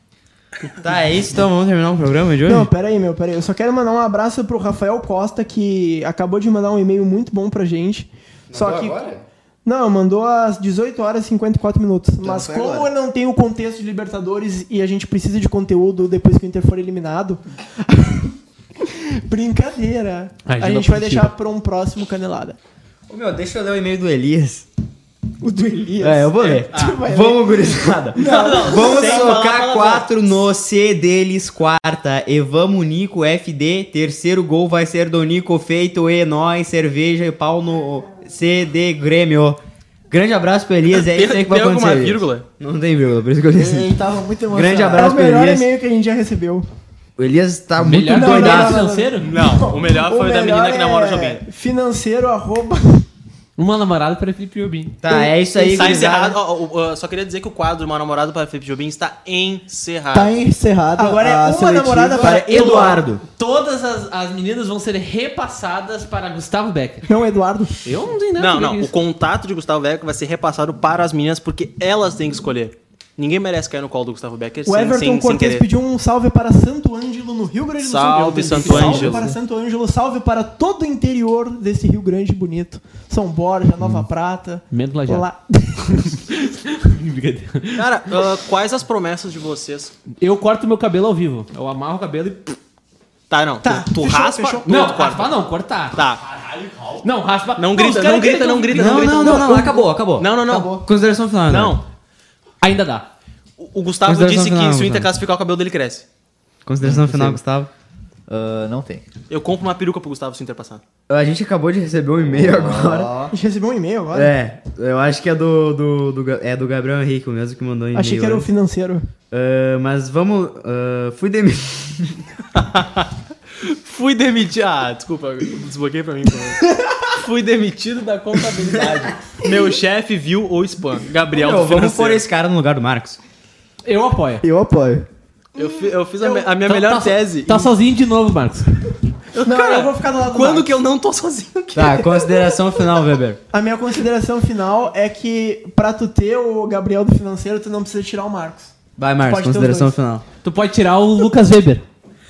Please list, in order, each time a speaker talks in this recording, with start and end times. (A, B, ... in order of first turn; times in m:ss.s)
0:00.8-0:02.7 A
0:02.4-0:09.0 B
0:08.5-0:09.2 A
0:09.6-0:22.6 B
0:12.2-0:12.9 A
0:20.4-0:21.3 C
0:23.1-0:24.7 A
0:25.4-0:29.4 B
0:26.0-0:39.6 A
0:26.4-0:27.1 D
0:28.2-0:30.1 D
0:40.1-0:44.0 A
0:40.9-0:42.4 D
0:43.5-0:45.2 E
0:44.5-0:45.7 A
0:44.9-0:46.7 B
0:47.2-0:48.8 A
0:47.8-0:49.4 C
0:48.1-0:53.1 B
0:49.2-0:51.4 D
0:53.6-0:55.0 C
0:55.0-0:56.4 A
0:55.1-0:56.1 B
0:55.7-1:00.3 D
1:00.1-1:02.8 E
1:01.0-1:03.0 B
1:02.2-1:03.2 A
1:03.3-1:07.1 C
1:07.1-1:07.8 B
1:07.8-1:08.9 C
1:08.4-1:15.6 D
1:14.6-1:26.2 B
1:17.8-1:19.3 D
1:18.1-1:19.4 C
1:24.7-1:25.3 C
1:25.9-1:28.2 C
1:27.7-1:29.9 D
1:30.2-1:32.6 C
1:33.3-1:35.4 D
1:33.6-1:34.7 B
1:34.6-1:39.3 C
1:35.9-1:36.2 D
1:37.6-1:40.8 D
1:38.7-1:41.8 A
1:39.2-1:39.8 B
1:40.4-1:40.8 E
1:41.5-1:41.8 D
1:42.6-1:43.1 C
1:43.6-1:46.0 D
1:44.0-1:45.1 A
1:46.6-1:47.7 A
1:46.8-1:47.4 E
1:48.3-1:49.0 E
1:49.3-1:50.8 D
1:51.1-1:53.1 A
1:52.2-1:53.3 E
1:53.3-1:54.3 B
1:54.1-1:58.5 A
1:57.9-1:59.1 B
1:59.3-2:02.2 A
2:02.5-2:12.2 D
2:11.3-2:13.2 A
2:13.8-2:14.4 C
2:14.4-2:15.1 E
2:15.5-2:17.7 D
2:15.6-2:16.5 B
2:16.6-2:18.7 C
2:19.3-2:22.1 D
2:19.4-2:20.8 B
2:21.7-2:23.4 A
2:23.5-2:28.7 B
2:29.0-2:30.2 A
2:29.2-2:29.9 B
2:30.4-2:31.8 C